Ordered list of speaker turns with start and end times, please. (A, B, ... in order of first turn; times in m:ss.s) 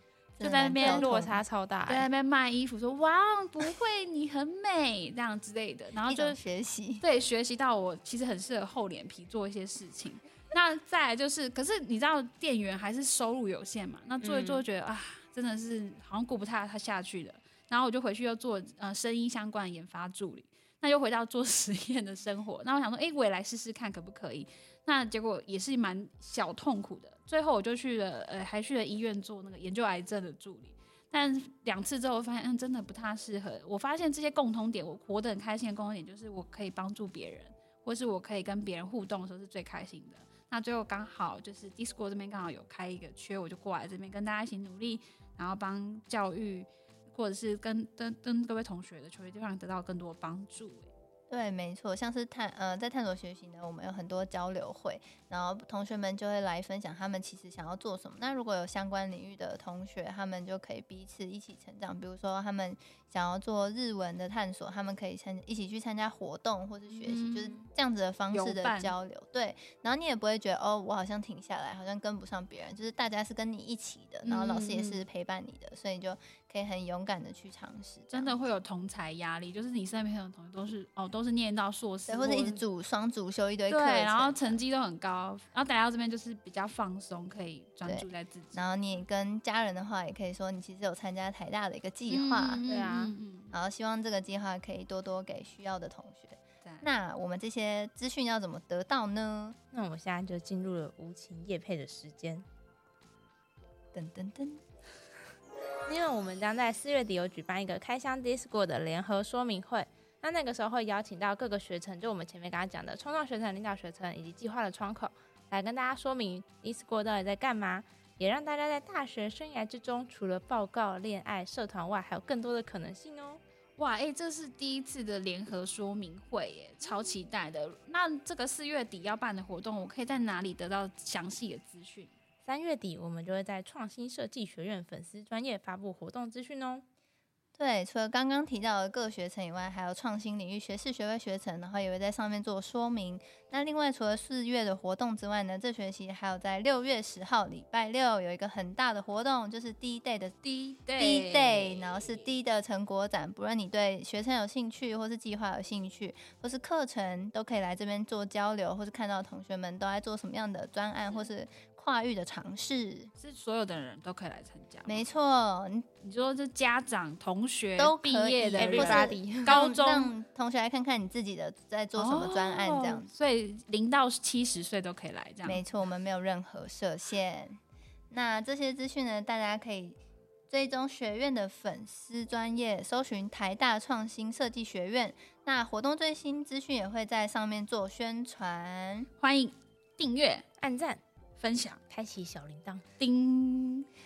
0:00.4-0:01.4 A
0:00.4-0:01.2 B
0:00.8-0:02.1 C
0:01.9-0:06.4 B
0:06.0-0:07.0 A
0:07.0-0:50.9 B
0:14.2-0:14.6 C
0:51.3-1:18.4 A
1:06.9-1:07.6 B
1:08.3-1:09.0 B
1:14.2-1:15.0 B
1:18.1-1:22.6 B
1:22.1-1:24.6 A
1:23.7-1:28.7 B
1:27.8-1:32.6 A
1:32.1-1:33.5 B
1:32.7-1:33.1 C
1:33.5-1:39.6 A
1:39.7-1:42.5 C
1:43.9-1:44.6 A
1:45.9-2:03.4 C
2:03.8-2:12.1 B
2:12.4-2:16.8 C
2:17.6-2:30.4 A
2:30.4-2:32.3 B
2:31.0-2:43.1 A
2:43.2-2:45.1 B
2:44.9-2:45.9 A
2:46.0-2:50.2 B
2:47.8-2:53.1 A
2:48.6-2:49.6 C
2:52.0-2:55.6 B
2:55.4-2:57.6 A
2:58.1-3:09.1 A
3:09.2-3:10.5 B
3:10.6-3:11.0 C
3:11.4-3:11.8 B
3:11.9-3:12.8 C
3:13.0-3:13.9 B